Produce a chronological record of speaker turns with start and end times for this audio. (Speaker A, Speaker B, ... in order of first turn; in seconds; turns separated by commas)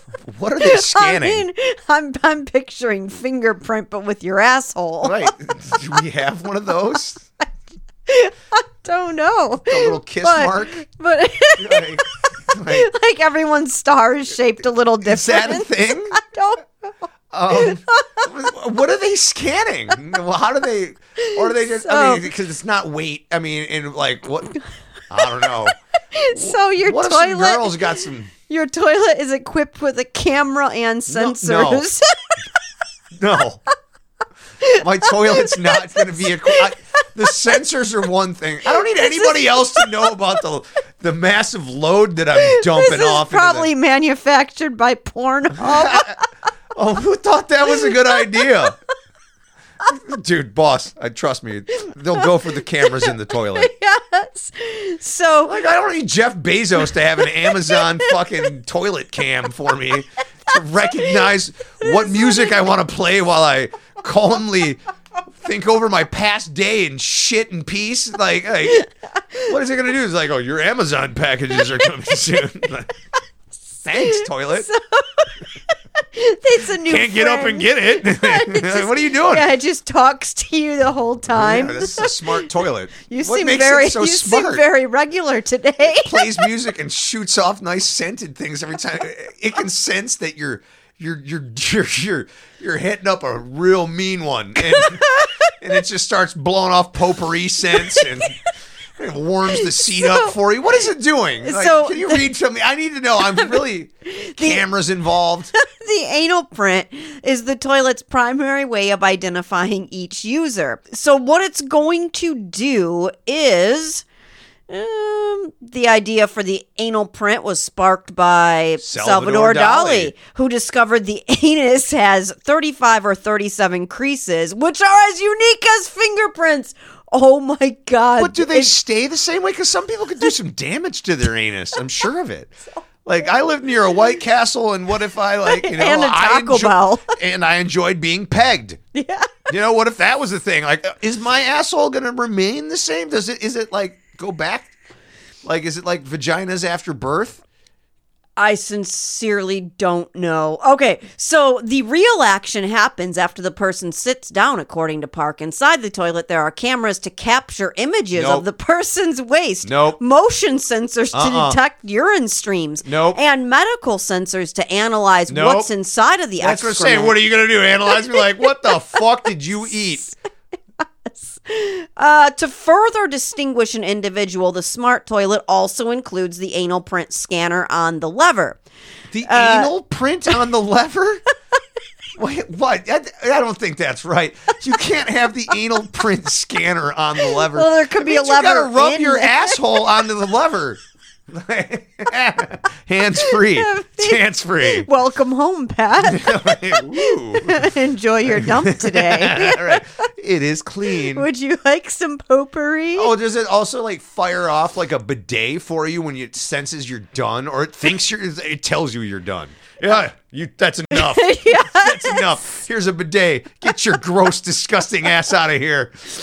Speaker A: 0.2-1.5, Speaker B: 0.6-5.3, Speaker A: 5.0-7.2, Speaker B: 8.1-16.7, Speaker A: 9.7-10.8, Speaker A: 11.6-12.9, Speaker A: 15.0-16.2, Speaker A: 17.3-24.6, Speaker B: 17.5-18.3, Speaker B: 21.2-22.3, Speaker A: 25.1-25.8, Speaker B: 26.1-32.4, Speaker A: 26.3-28.3, Speaker A: 31.1-31.9, Speaker A: 33.2-33.6, Speaker B: 34.6-36.7, Speaker A: 34.8-43.7, Speaker B: 38.7-40.1, Speaker B: 42.4-46.2, Speaker A: 45.6-46.2, Speaker A: 46.8-48.8, Speaker B: 47.7-48.5, Speaker A: 49.8-53.7, Speaker B: 52.1-55.6, Speaker A: 55.5-64.8, Speaker B: 56.8-58.5, Speaker B: 60.9-61.2, Speaker B: 61.8-62.6, Speaker A: 65.4-68.8, Speaker B: 68.7-69.6, Speaker A: 69.4-72.9, Speaker A: 73.8-74.7, Speaker B: 74.0-82.5, Speaker A: 76.8-79.5, Speaker A: 81.3-84.6, Speaker B: 83.1-86.5, Speaker A: 85.8-98.4, Speaker B: 94.6-95.3, Speaker B: 97.7-98.3, Speaker A: 99.0-105.5, Speaker B: 99.5-100.3, Speaker B: 101.4-102.3, Speaker B: 103.2-104.7, Speaker B: 105.5-114.0, Speaker B: 114.7-128.7, Speaker A: 118.8-120.1, Speaker A: 128.2-138.8, Speaker B: 135.4-137.2, Speaker B: 138.9-139.5, Speaker A: 139.5-144.7, Speaker A: 145.4-147.4, Speaker B: 148.4-167.2, Speaker A: 158.1-158.4, Speaker A: 159.6-160.0, Speaker A: 161.1-161.6, Speaker A: 162.8-163.2, Speaker A: 165.3-165.7, Speaker A: 166.4-170.1, Speaker B: 167.9-168.7, Speaker B: 171.1-178.6, Speaker A: 179.1-181.2, Speaker B: 179.2-179.7, Speaker A: 182.2-194.9, Speaker B: 187.2-189.9, Speaker B: 193.2-200.0, Speaker A: 196.0-197.7, Speaker A: 198.3-201.3, Speaker B: 200.9-203.1, Speaker A: 203.0-216.1, Speaker B: 210.9-212.4